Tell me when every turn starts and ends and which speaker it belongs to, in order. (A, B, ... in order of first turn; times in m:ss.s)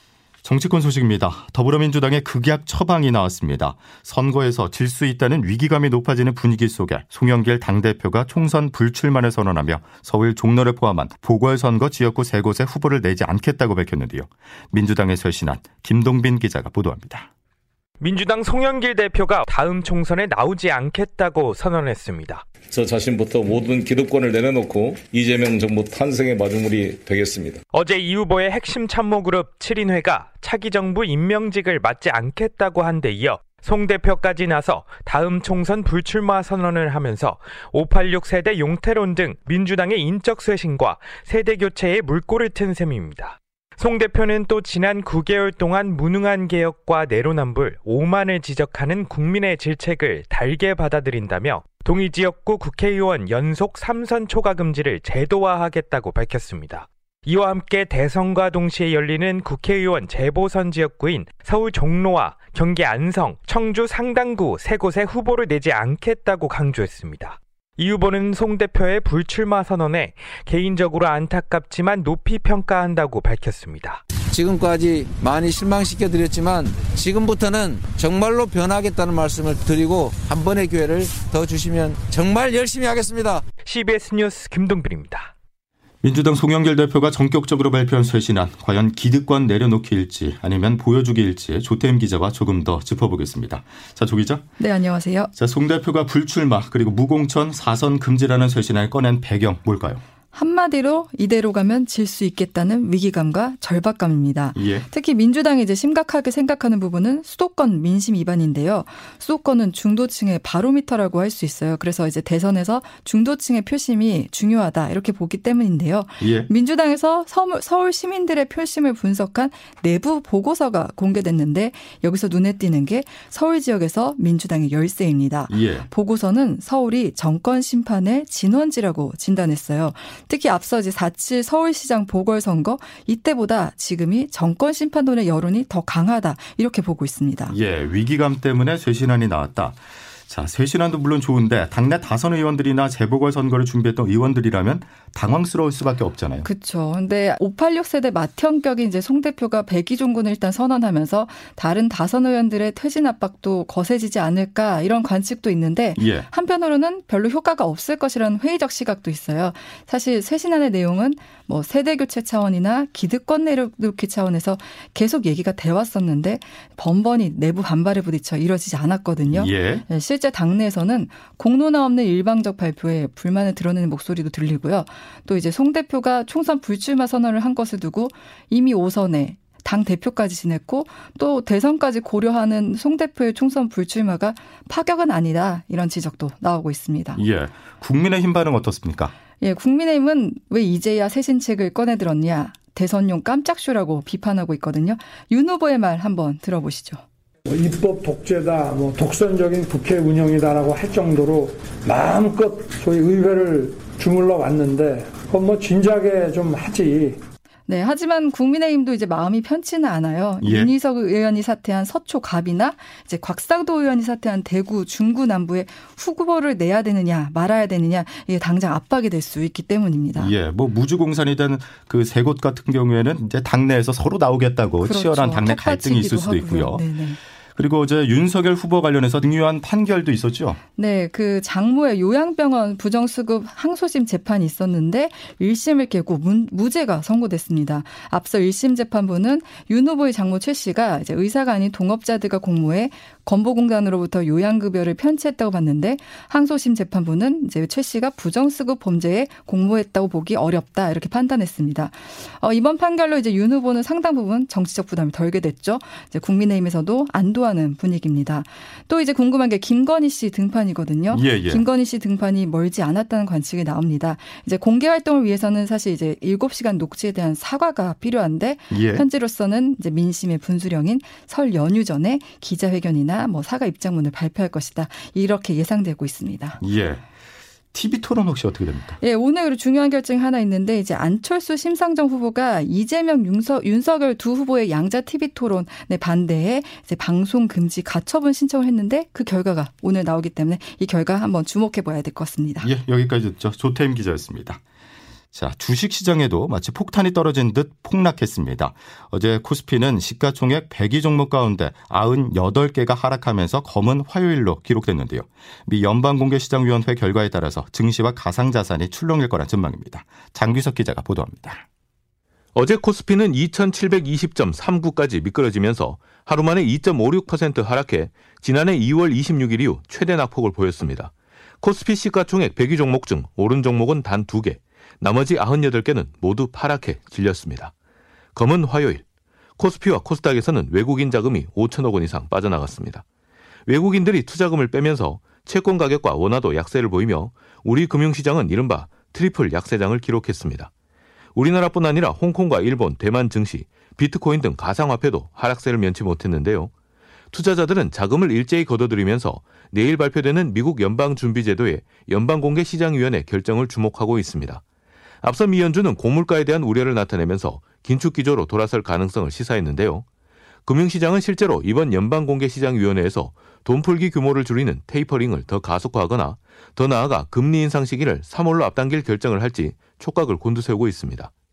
0:00.4-0:17.3 A
0:18.0-0:22.4 B
0:22.7-0:27.6 C
0:27.7-1:14.0 B
1:14.3-1:23.4 D
1:23.6-1:25.3 B
1:26.0-1:34.5 A
1:34.6-1:35.3 E
1:35.3-1:40.0 A
1:40.3-2:17.6 E
1:44.6-1:44.9 A
1:56.2-1:56.5 A
2:05.5-2:05.9 A
2:17.5-2:26.5 A
2:26.4-3:07.2 E
2:36.0-2:36.3 A
2:49.3-2:49.9 A
3:07.2-3:09.2 A
3:09.4-3:17.0 E
3:17.5-3:27.2 F
3:27.7-3:40.3 E
3:30.4-3:30.7 A
3:40.2-3:46.9 A
3:44.8-3:47.2 E
3:47.6-3:50.6 A
3:50.8-4:36.6 E
4:21.1-4:21.7 A
4:28.7-4:29.0 A
4:36.6-4:37.0 A
4:37.7-4:39.0 A
4:39.0-4:52.7 E
4:52.6-4:54.6 A
4:55.3-5:11.6 A
5:12.6-5:27.7 G
5:28.4-5:29.0 G
5:29.6-5:33.0 G
5:33.7-5:40.7 G
5:41.4-5:46.7 G
5:47.3-5:54.6 G
5:55.2-6:00.0 G
6:00.7-6:11.3 G